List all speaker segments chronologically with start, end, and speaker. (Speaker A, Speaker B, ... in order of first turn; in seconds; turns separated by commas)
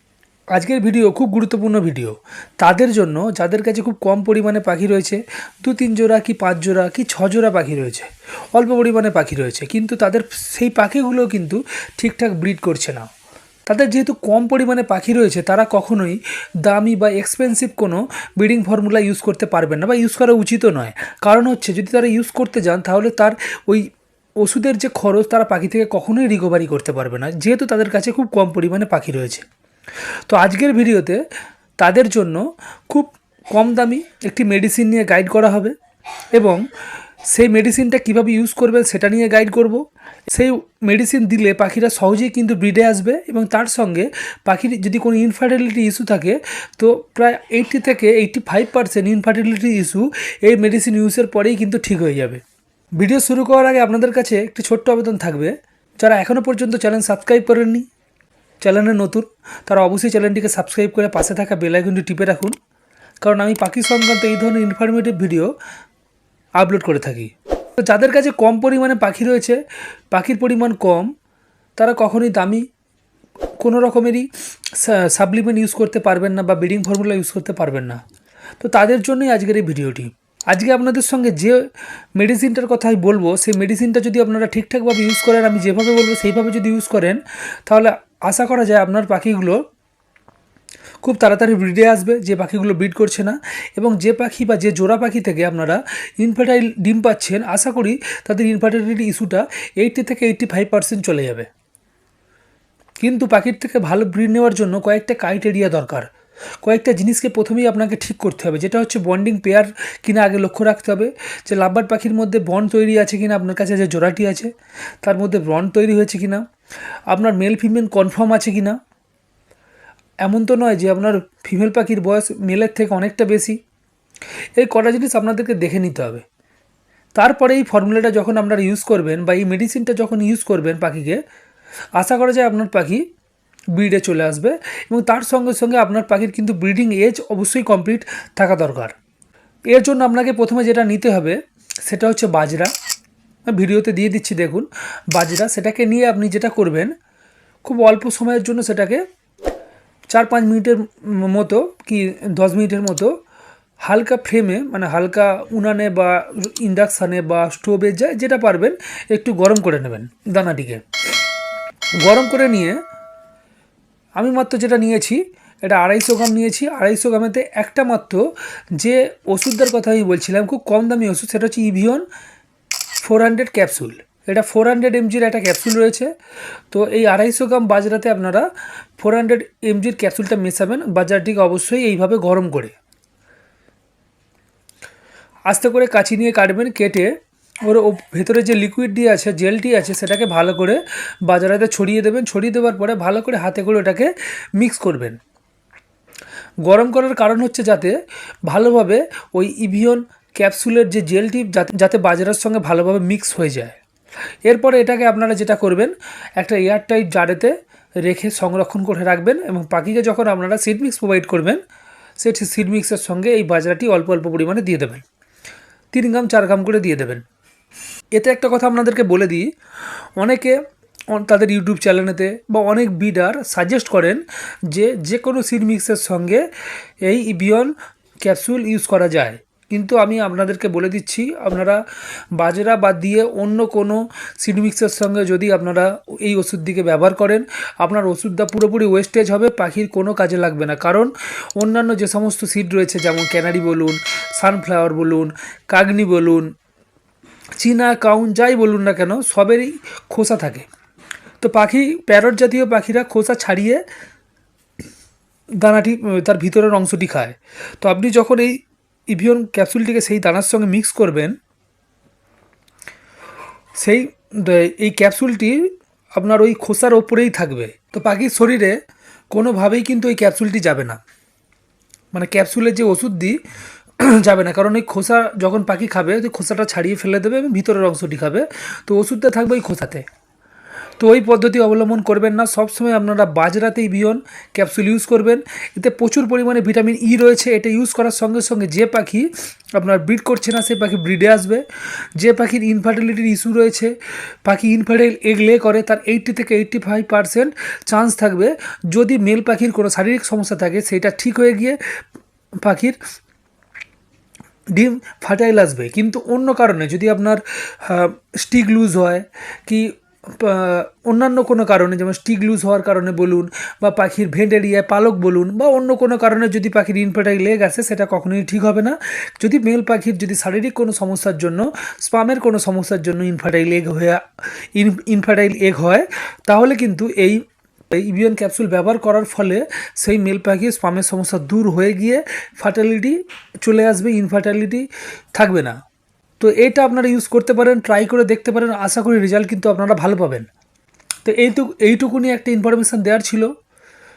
Speaker A: 0.5-13.1, Speaker A: 13.7-29.5, Speaker A: 30.3-31.2, Speaker A: 31.8-35.8, Speaker A: 36.3-36.6, Speaker A: 37.3-52.4, Speaker A: 53.0-57.9, Speaker A: 58.6-62.5, Speaker A: 63.2-65.5, Speaker A: 66.6-69.6, Speaker A: 70.1-71.1, Speaker A: 71.8-72.7, Speaker A: 73.6-78.0, Speaker A: 78.6-81.6, Speaker A: 82.2-89.6, Speaker A: 91.0-101.5, Speaker A: 103.0-106.1, Speaker A: 106.6-114.5, Speaker A: 115.0-116.4, Speaker A: 117.1-118.8, Speaker A: 120.2-123.6, Speaker A: 124.5-126.2, Speaker A: 127.1-131.2, Speaker A: 131.9-133.0, Speaker A: 133.7-138.9, Speaker A: 139.7-142.7, Speaker A: 143.5-146.9, Speaker A: 147.6-149.0, Speaker A: 150.1-153.1, Speaker A: 153.8-160.8, Speaker A: 162.0-162.8, Speaker A: 164.2-172.1, Speaker A: 173.0-176.1, Speaker A: 176.7-182.7, Speaker A: 185.5-187.1, Speaker A: 187.6-195.2, Speaker A: 196.6-203.8, Speaker A: 204.4-211.6, Speaker A: 212.2-215.0, Speaker A: 215.9-217.2, Speaker A: 218.1-219.5, Speaker A: 220.2-220.6, Speaker A: 221.1-226.4, Speaker A: 227.0-231.8, Speaker A: 232.3-246.5, Speaker A: 247.6-250.7, Speaker A: 251.4-253.8, Speaker A: 255.6-261.4, Speaker A: 263.8-268.8, Speaker A: 269.3-271.0, Speaker A: 272.1-273.4, Speaker A: 274.0-280.1, Speaker A: 281.0-291.6, Speaker A: 292.1-301.8, Speaker A: 302.6-303.0, Speaker A: 304.7-324.2, Speaker A: 324.7-335.8, Speaker A: 336.4-340.5, Speaker A: 341.2-343.5